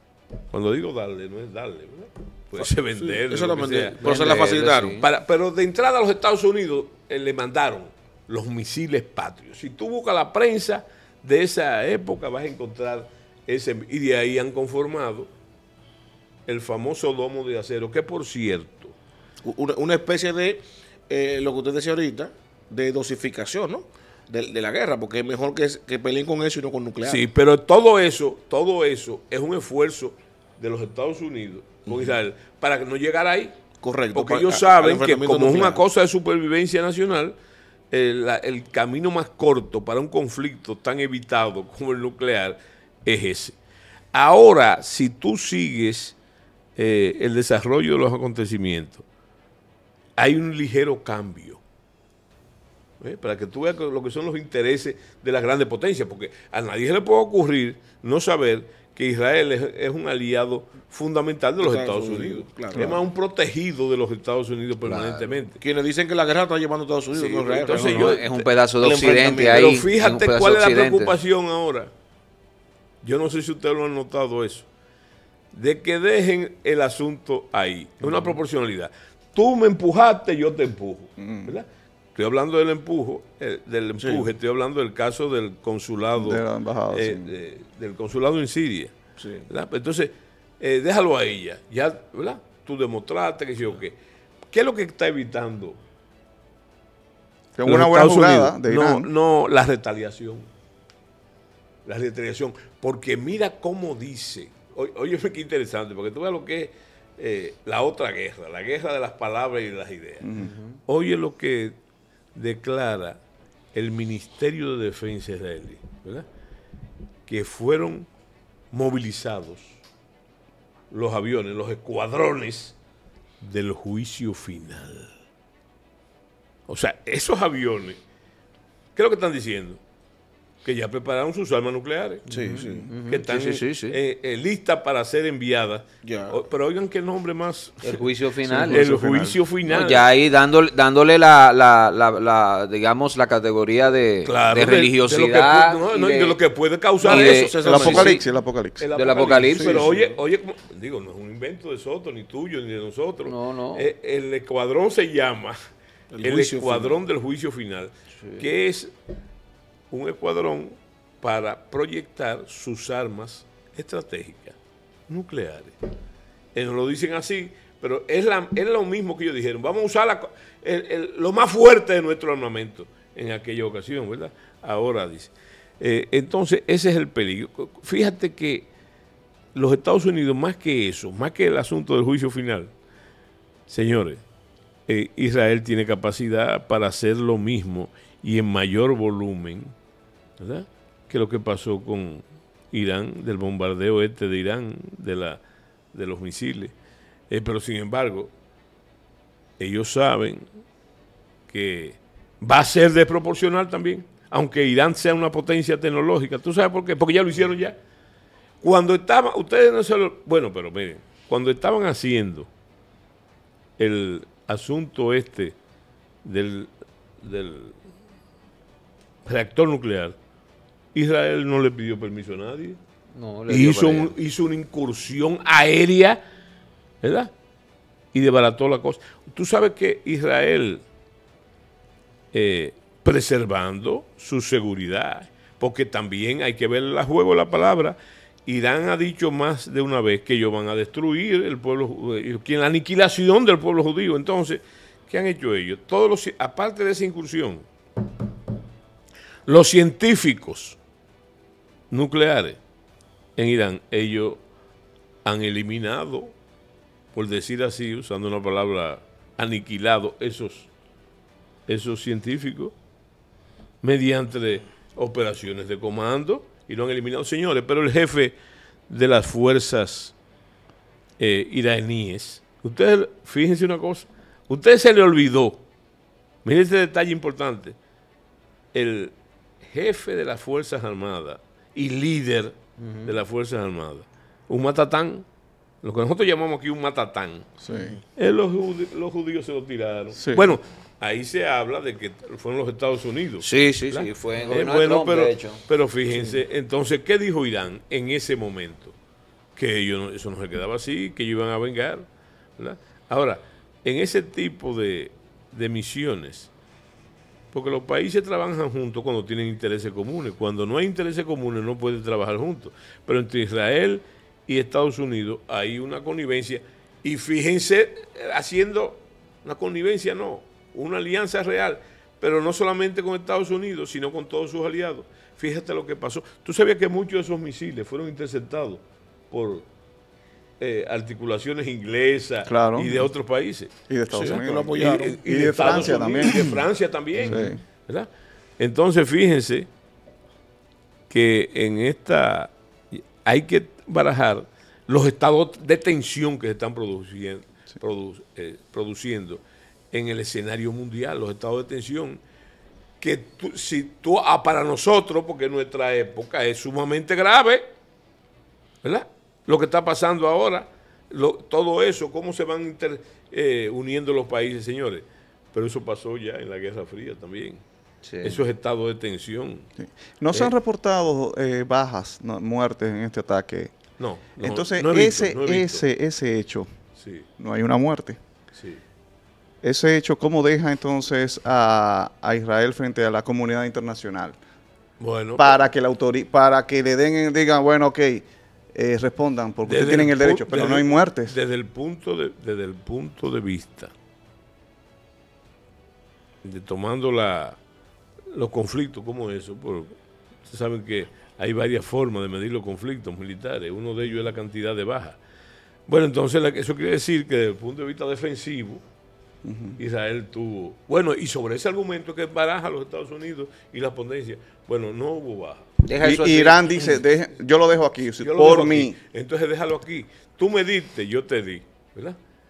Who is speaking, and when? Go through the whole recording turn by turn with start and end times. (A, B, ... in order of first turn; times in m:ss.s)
0:00.5-0:15.3 A
0:02.6-0:05.0 B
0:04.0-0:05.0 C
0:16.5-0:18.9 A
0:19.4-0:27.2 B
0:27.0-0:33.5 A
0:31.9-0:32.2 B
0:33.8-0:35.8 B
0:34.1-0:37.4 A
0:37.9-0:43.5 A
0:44.1-0:46.2 A
0:46.8-0:49.0 A
0:50.2-0:51.6 A
0:53.0-1:05.6 A
1:01.6-1:03.0 B
1:04.8-1:05.4 C
1:05.6-1:08.2 B
1:07.1-1:08.4 A
1:07.7-1:11.2 C
1:08.8-1:09.7 B
1:09.2-1:11.9 A
1:13.0-1:14.7 A
1:15.5-1:28.9 A
1:18.0-1:18.3 B
1:21.2-1:21.5 D
1:24.0-1:24.3 B
1:26.2-1:27.3 D
1:29.2-1:29.5 B
1:29.5-1:33.9 A
1:34.5-1:35.8 A
1:37.6-1:39.1 D
1:37.6-1:40.5 A
1:41.8-1:51.8 A
1:50.2-1:50.5 D
1:50.4-1:50.8 C
1:52.3-1:53.2 A
1:53.7-1:56.2 A
1:57.3-1:58.1 A
1:58.7-1:59.8 A
2:00.9-2:02.8 A
2:03.4-2:05.1 A
2:06.7-2:08.0 A
2:09.0-2:09.8 A
2:10.6-2:12.2 A
2:12.3-2:14.0 C
2:12.3-2:12.9 B
2:13.0-2:18.0 A
2:16.0-2:16.4 B
2:17.8-2:18.9 C
2:18.5-2:19.4 D
2:18.6-2:20.1 A
2:19.6-2:26.4 C
2:24.2-2:28.2 A
2:27.0-2:28.2 C
2:27.0-2:28.2 B
2:27.6-2:28.9 D
2:28.8-2:35.6 A
2:28.9-2:29.9 C
2:29.5-2:30.2 B
2:33.3-2:33.8 C
2:36.1-2:37.0 B
2:36.2-2:38.9 A
2:39.9-2:44.6 A
2:45.1-2:45.7 A
2:46.5-2:58.7 A
2:59.5-3:02.7 A
3:03.7-3:04.2 A
3:04.9-3:09.7 A
3:10.4-3:15.4 A
3:15.9-3:16.7 A
3:17.3-3:18.3 A
3:19.6-3:20.4 A
3:21.5-3:27.8 A
3:28.6-3:32.5 A
3:33.8-3:35.6 A
3:36.2-3:36.7 A
3:37.2-3:37.8 A
3:39.2-3:40.2 A
3:40.9-3:42.8 A
3:43.1-3:44.1 C
3:43.5-3:46.2 A
3:47.0-3:47.3 A
3:48.1-3:50.8 A
3:52.3-4:07.6 A
4:09.5-4:10.8 A
4:11.9-4:12.6 A
4:13.4-4:14.4 A
4:15.2-4:16.3 A
4:17.1-4:20.7 A
4:21.7-4:22.7 A
4:23.8-4:28.4 A
4:28.9-4:30.1 A
4:31.2-4:35.6 A
4:36.4-4:37.8 A
4:38.7-4:39.1 A
4:39.6-4:45.2 A
4:42.8-4:43.1 C
4:45.8-4:47.5 A
4:47.6-4:48.0 D
4:48.2-4:58.9 A
4:50.2-4:50.6 D
4:53.4-4:55.6 C
4:59.6-5:02.1 A
5:02.6-5:06.5 A
5:07.5-5:29.6 A
5:30.6-5:38.1 A
5:32.5-5:33.1 D
5:33.9-5:36.6 D
5:34.1-5:36.6 B
5:37.2-5:37.6 D
5:38.6-5:39.7 A
5:41.1-5:49.4 A
5:49.9-5:52.2 A
5:53.0-5:57.7 A
5:58.8-6:07.6 A
6:08.0-6:08.4 C
6:08.2-6:09.7 A
6:09.8-6:13.7 D
6:14.0-6:15.8 A
6:14.4-6:16.7 D
6:17.0-6:17.3 A
6:17.4-6:18.2 D
6:18.6-6:18.8 A
6:19.6-6:24.4 D
6:25.0-6:25.6 A
6:25.4-6:31.4 D
6:29.6-6:33.9 A
6:36.4-6:37.6 A
6:38.3-6:39.9 A
6:40.4-6:45.2 A
6:45.9-6:48.8 A
6:49.4-6:49.8 D
6:49.8-6:55.8 A
6:55.8-6:57.0 C
6:56.0-6:59.0 D
6:56.8-6:57.0 A
6:58.2-7:02.2 A